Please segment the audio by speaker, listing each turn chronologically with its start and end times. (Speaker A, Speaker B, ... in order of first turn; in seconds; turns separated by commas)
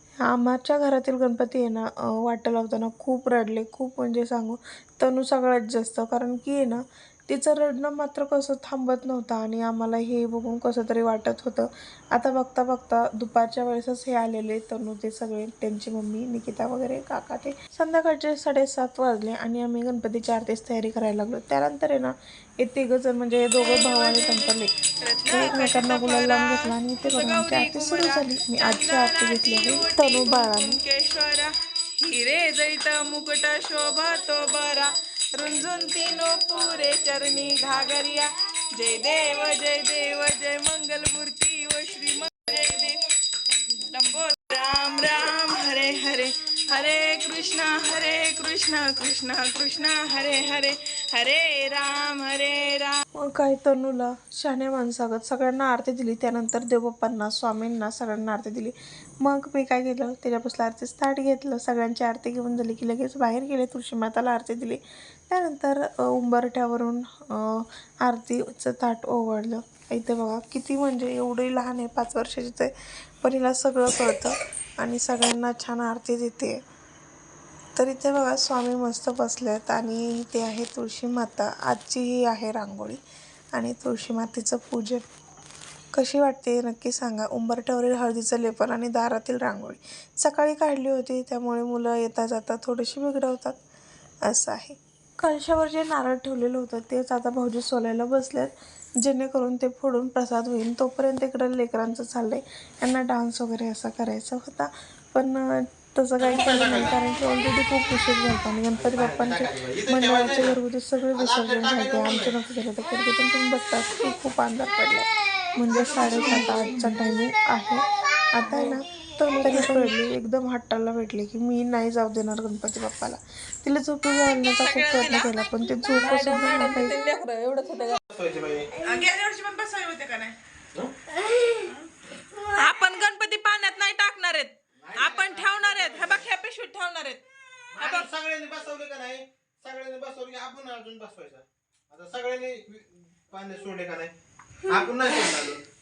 Speaker A: 0.2-24.7, Speaker B: 23.6-43.0, Speaker A: 25.2-30.8, Speaker B: 43.6-53.0, Speaker A: 53.2-76.6, Speaker A: 77.8-83.0, Speaker A: 83.5-85.0, Speaker A: 85.9-93.6, Speaker A: 94.2-126.9, Speaker C: 109.2-109.9, Speaker B: 119.5-119.8, Speaker B: 124.0-125.3, Speaker B: 126.0-128.0, Speaker C: 128.1-128.7, Speaker B: 128.7-130.3, Speaker B: 131.4-131.7, Speaker B: 132.4-137.2, Speaker C: 134.9-136.1, Speaker C: 137.7-144.1, Speaker B: 137.7-138.1, Speaker C: 144.6-145.6